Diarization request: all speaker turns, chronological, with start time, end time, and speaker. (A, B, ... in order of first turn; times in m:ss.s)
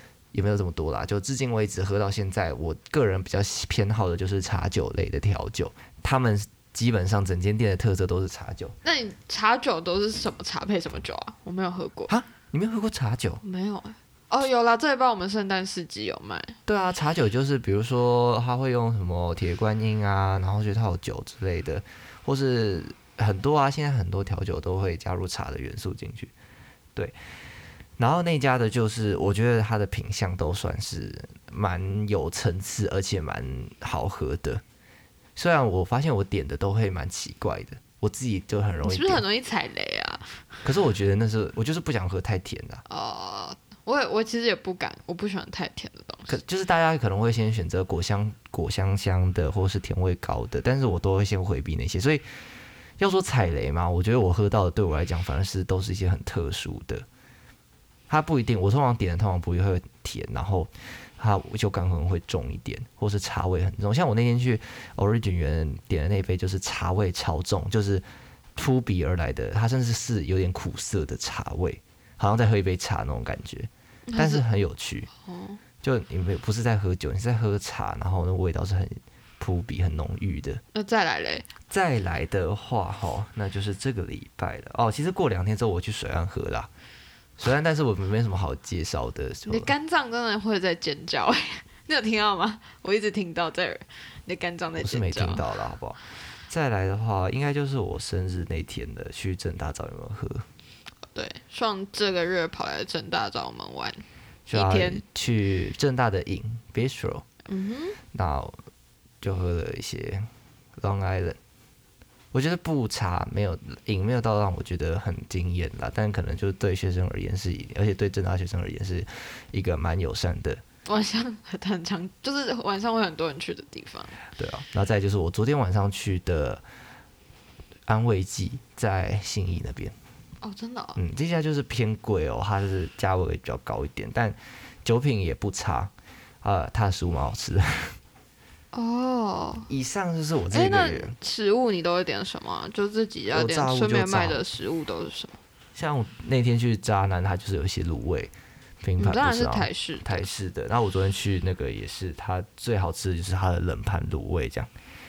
0:00.3-0:08.8 A
0:08.8-0:12.1 B
0:12.1-0:13.4 A
0:13.4-0:16.6 B
0:16.6-0:26.3 A
0:28.0-0:34.6 A
0:35.4-0:39.2 A
0:38.8-0:40.4 B
0:40.6-0:42.8 A
0:42.9-0:46.4 B
0:46.3-0:52.2 A
0:53.0-0:57.0 A
0:58.1-1:08.0 A
1:08.6-1:15.1 A
1:14.1-1:14.4 B
1:15.2-1:15.6 B
1:15.8-1:20.6 A
1:20.7-1:21.5 B
1:21.7-1:26.7 A
1:27.4-1:29.7 A
1:29.5-1:35.4 B
1:34.8-1:40.4 A
1:41.1-1:45.0 B
1:44.5-1:47.2 A
1:47.5-1:48.0 B
1:48.1-1:48.6 A
1:49.2-1:50.3 A
1:50.8-1:51.4 A
1:52.3-2:00.6 A
2:00.8-2:04.2 B
2:04.4-2:06.6 A
2:07.9-2:09.9 A
2:10.4-2:11.0 B
2:11.0-2:18.0 A
2:18.7-2:19.7 B
2:19.7-2:21.2 A
2:20.5-2:25.4 B
2:23.3-2:24.4 A
2:25.7-2:34.7 A
2:29.0-2:30.2 B